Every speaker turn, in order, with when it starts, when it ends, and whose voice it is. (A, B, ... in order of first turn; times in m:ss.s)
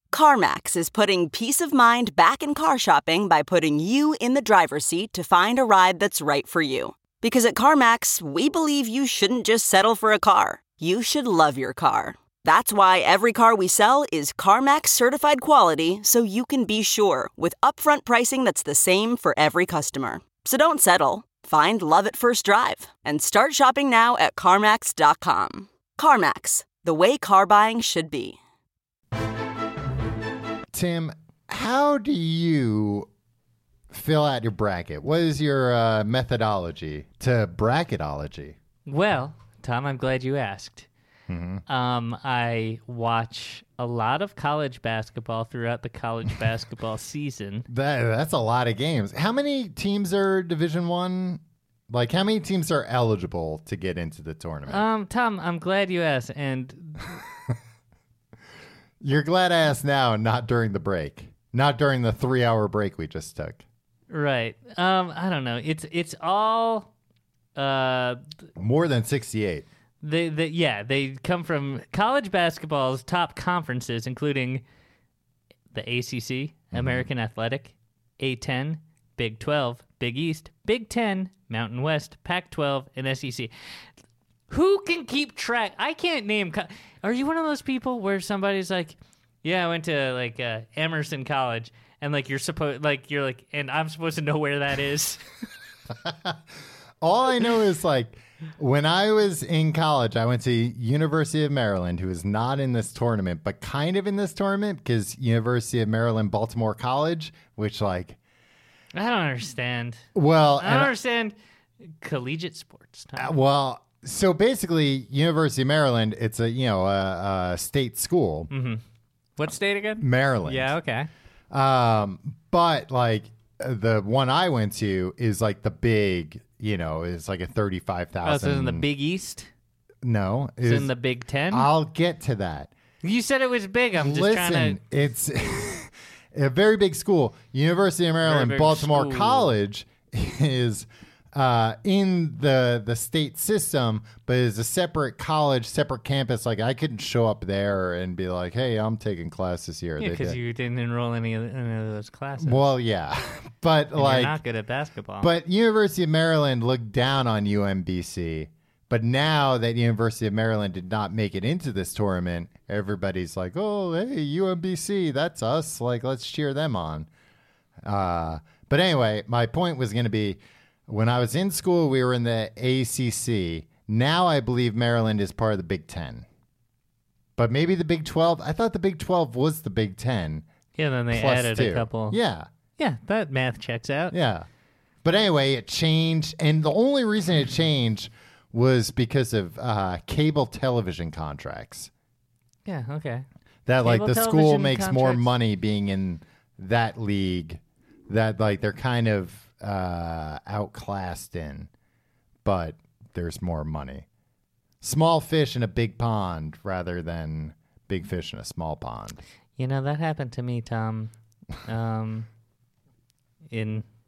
0:00.1-0:28.4 A
0:30.7-0:33.1 B
0:33.9-0:38.6 B
0:38.9-0:40.9 C
0:41.3-0:41.6 B
0:41.7-0:47.7 C
0:47.7-0:54.8 B
0:54.7-0:57.2 C
0:59.0-1:03.6 B
1:04.1-1:06.9 C
1:07.6-1:08.3 C
1:08.6-1:09.6 B
1:10.0-1:14.6 C
1:15.7-1:23.5 C
1:16.7-1:17.0 B
1:24.5-1:35.2 C
1:36.0-1:36.4 B
1:37.0-1:48.2 B
1:48.9-1:50.0 C
1:50.1-1:50.9 B
1:50.6-1:51.3 C
1:52.0-1:53.3 C
1:53.2-1:58.5 B
1:58.5-1:58.8 C
1:59.4-2:01.1 C
2:00.0-2:00.7 B
2:01.5-2:08.8 B
2:08.2-2:09.5 C
2:10.0-2:10.9 B
2:10.6-2:11.7 C
2:11.5-2:12.7 B
2:13.0-2:14.8 C
2:13.9-2:30.4 B
2:18.2-2:19.5 C
2:30.0-2:32.6 C
2:32.4-2:34.4 B
2:33.9-2:35.3 C
2:35.2-2:47.1 B
2:47.8-2:56.2 B
2:57.4-3:00.5 B
3:00.7-3:02.2 C
3:01.1-3:02.5 B
3:02.8-3:04.2 C
3:04.1-3:04.5 B
3:05.0-3:11.9 B
3:12.6-3:13.2 C
3:13.6-3:21.7 B
3:13.8-3:15.3 C
3:22.4-3:24.0 B
3:24.8-3:29.2 B
3:29.6-3:31.1 C
3:31.6-3:32.3 C
3:33.5-3:33.8 C